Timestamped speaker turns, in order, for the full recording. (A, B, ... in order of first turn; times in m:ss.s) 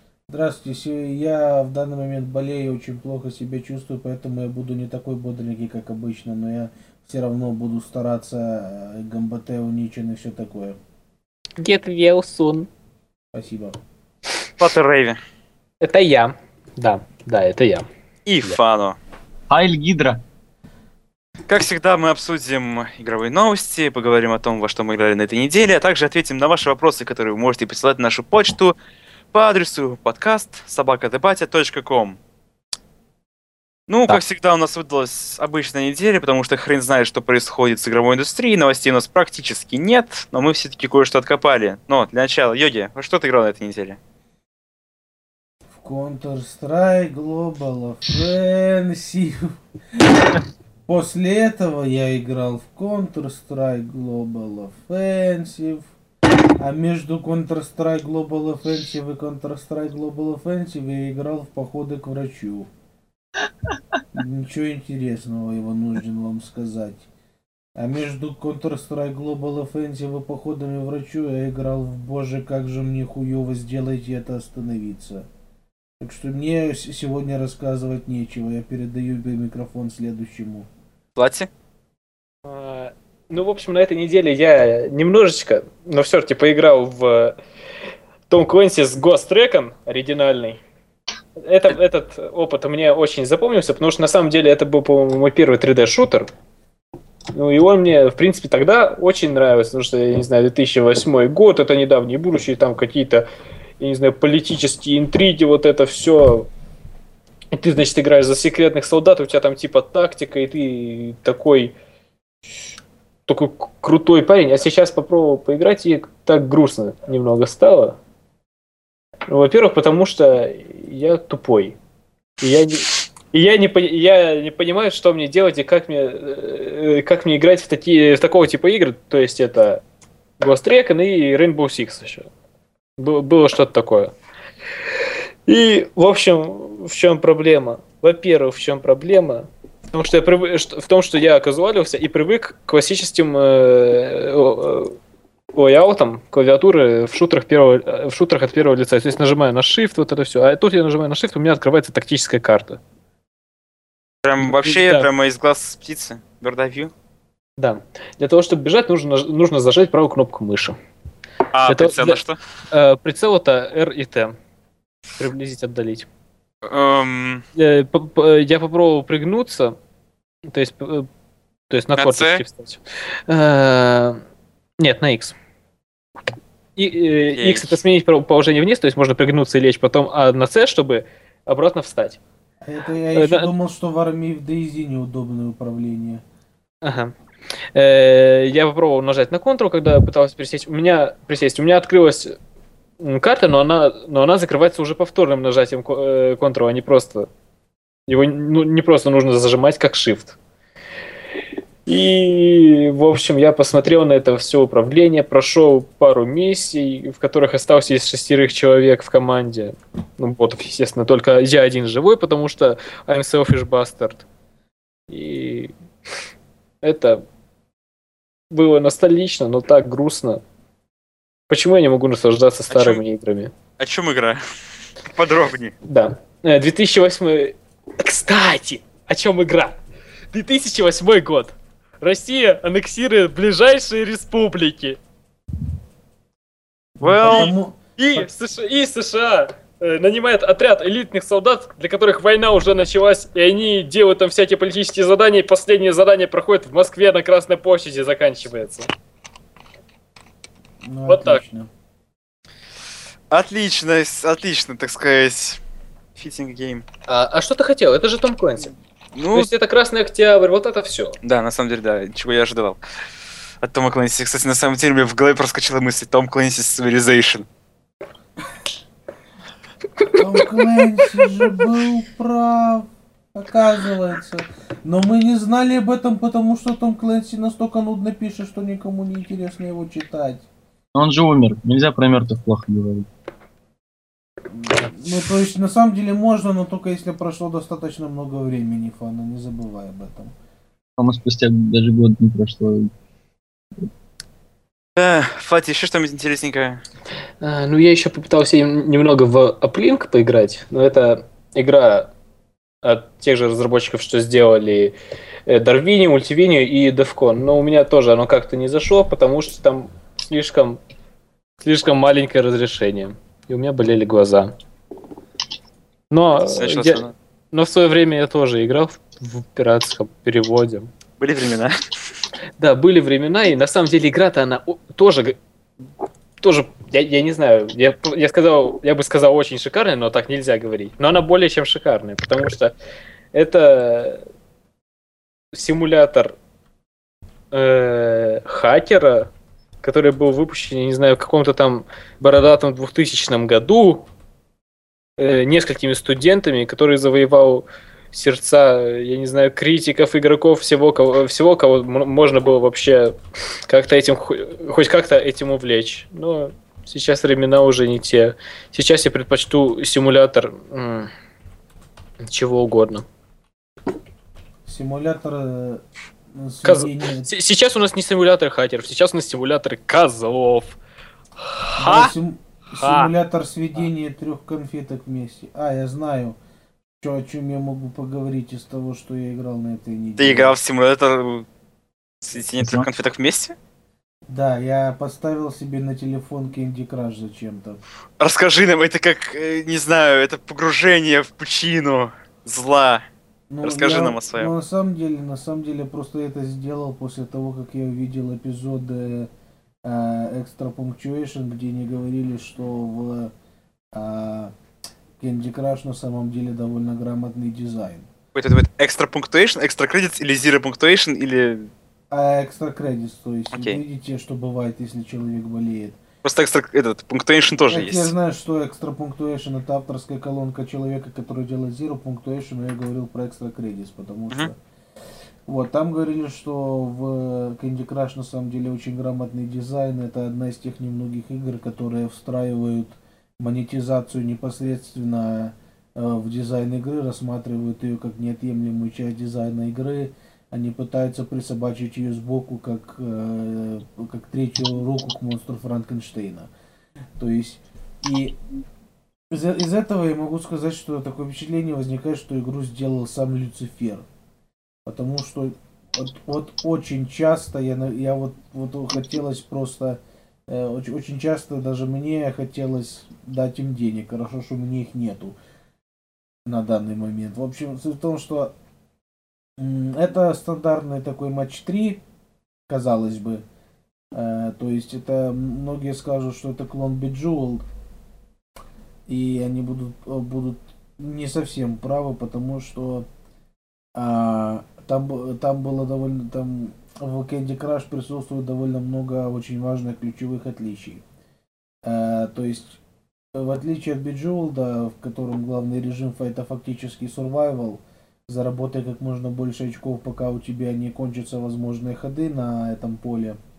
0:00.3-0:10.8 A
0:11.6-0:12.7 B
0:13.3-0:13.8 A
0:14.6-0:15.2 C
0:15.8-0:17.9 B
0:18.3-0:19.0 C
0:19.5-0:20.2 D
0:21.5-0:28.7 C
0:29.3-0:32.2 C
0:33.9-0:44.0 C
0:45.7-0:50.2 A
0:50.9-0:55.9 A
0:56.6-1:02.7 A
1:04.1-1:07.1 A
1:07.8-1:15.3 A
1:16.0-1:20.7 A
1:21.2-1:21.5 C
1:22.4-1:27.4 B
1:28.3-1:30.6 B
1:31.4-1:36.3 B
1:37.3-1:43.2 B
1:43.8-1:46.5 B
1:47.5-1:51.7 B
1:53.3-1:58.0 B
1:59.3-2:01.8 B
2:02.4-2:09.8 B
2:10.4-2:12.3 B
2:13.0-2:14.1 B
2:15.5-2:25.0 B
2:25.6-2:32.8 B
2:34.2-2:36.9 C
2:34.4-2:35.1 B
2:37.6-2:40.8 B
2:41.5-2:42.4 C
2:41.7-2:42.2 B
2:42.7-2:44.4 B
2:45.2-2:46.1 B
2:46.6-2:47.4 C
2:47.6-2:49.8 B
2:50.5-2:51.1 B
2:51.7-2:54.2 B
2:52.0-2:52.4 C
2:54.8-2:55.4 B
2:56.8-3:02.2 B
2:57.4-2:57.8 C
3:02.6-3:06.2 A
3:03.1-3:03.5 B
3:06.8-3:07.1 B
3:07.7-3:12.4 B
3:13.0-3:17.3 B
3:18.1-3:20.4 B
3:21.9-3:34.2 B
3:35.1-3:35.7 B
3:36.8-3:37.2 B
3:38.5-3:40.4 B
3:41.5-3:43.5 B
3:42.7-3:43.0 C
3:43.8-3:44.4 C
3:45.1-3:45.7 C
3:45.8-3:49.8 B
3:50.3-3:55.0 B
3:57.0-3:57.8 A
3:57.0-3:58.3 C
3:57.2-3:57.5 B
3:58.0-4:08.9 B
4:10.8-4:11.7 A
4:11.1-4:11.4 B
4:13.3-4:15.6 C
4:16.2-4:16.8 C
4:17.1-4:18.7 B
4:19.2-4:19.5 C
4:19.3-4:21.2 B
4:21.2-4:22.8 C
4:23.6-4:27.5 C
4:30.1-4:40.5 A
4:41.0-4:43.1 D
4:44.5-4:50.4 A
4:51.0-4:52.9 D
4:55.0-4:56.8 C
4:57.4-5:02.1 B
5:02.8-5:04.9 B
5:05.5-5:10.8 B
5:11.6-5:14.6 B
5:16.1-5:20.9 B
5:16.4-5:17.1 C
5:21.2-5:21.7 C
5:22.6-5:25.4 B
5:26.4-5:32.8 B
5:33.3-5:34.2 B
5:35.5-5:36.4 B
5:37.5-5:39.3 B
5:39.8-5:44.1 B
5:45.2-5:53.2 B
5:53.7-6:01.1 B
6:02.2-6:03.1 B
6:04.6-6:07.3 A
6:06.6-6:10.8 B
6:11.4-6:12.1 B
6:11.8-6:16.4 A
6:12.7-6:13.1 B
6:17.0-6:20.6 A
6:20.2-6:21.5 C
6:22.2-6:23.6 C
6:22.6-6:22.9 D
6:24.3-6:27.8 A
6:28.2-6:33.0 C
6:33.5-6:39.3 A
6:33.6-6:34.5 C
6:39.8-6:43.3 A
6:43.9-6:44.5 A
6:45.2-6:48.1 A
6:48.3-6:51.7 C
6:52.1-6:56.0 A
6:53.5-6:53.8 C
6:56.2-6:58.1 C
6:57.7-7:04.6 A
7:05.5-7:26.5 A
7:27.2-7:28.4 A
7:29.3-7:34.0 A
7:34.9-7:45.4 A
7:46.5-7:48.5 A
7:49.6-7:52.0 A
7:52.7-7:53.4 A
7:54.1-7:57.6 A
7:59.1-8:03.1 A
8:04.0-8:11.0 A
8:11.8-8:12.8 A
8:13.4-8:23.4 A